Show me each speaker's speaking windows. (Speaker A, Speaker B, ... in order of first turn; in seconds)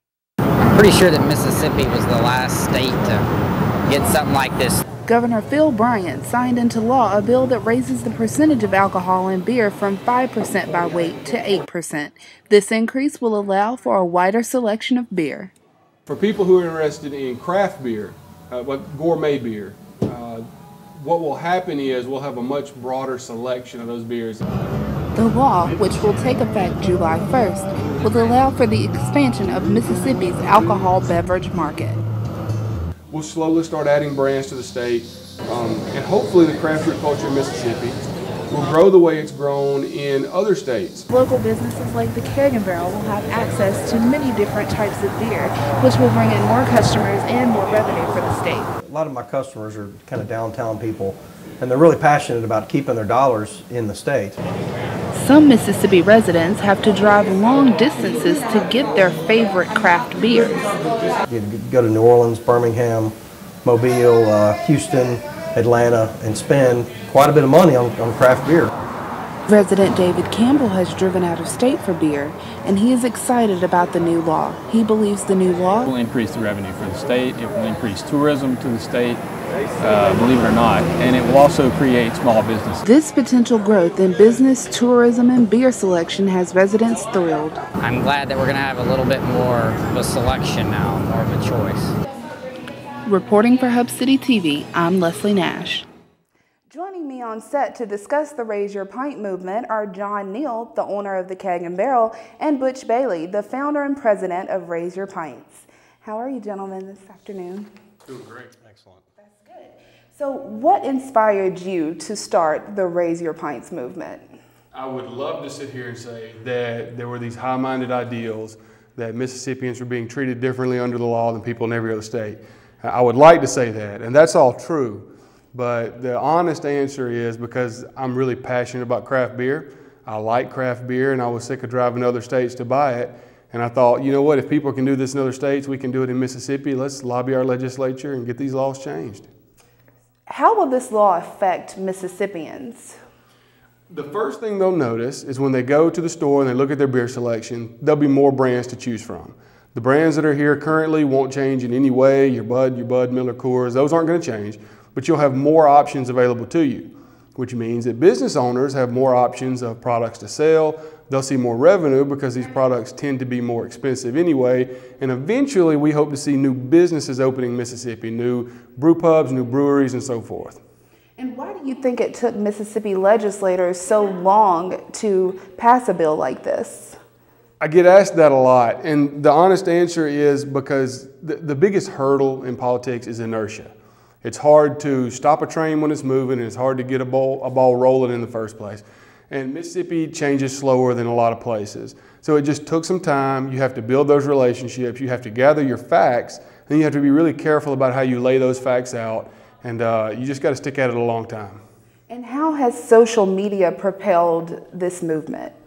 Speaker A: 0.7-3.2, 3.9-4.8, 87.8-91.9
Speaker B: 5.0-15.5, 25.1-32.0, 41.1-48.7, 55.1-60.6, 69.5-75.9, 82.8-87.6, 93.0-95.8, 96.7-107.7, 109.2-114.3, 140.3-142.9, 171.2-177.0, 202.1-205.5
Speaker C: 16.1-24.4, 33.1-41.0, 108.0-108.5, 114.7-139.3, 143.9-170.6, 177.6-201.6
Speaker D: 48.8-54.4, 61.3-68.7, 108.6-109.0
Speaker E: 75.8-79.2, 79.8-82.8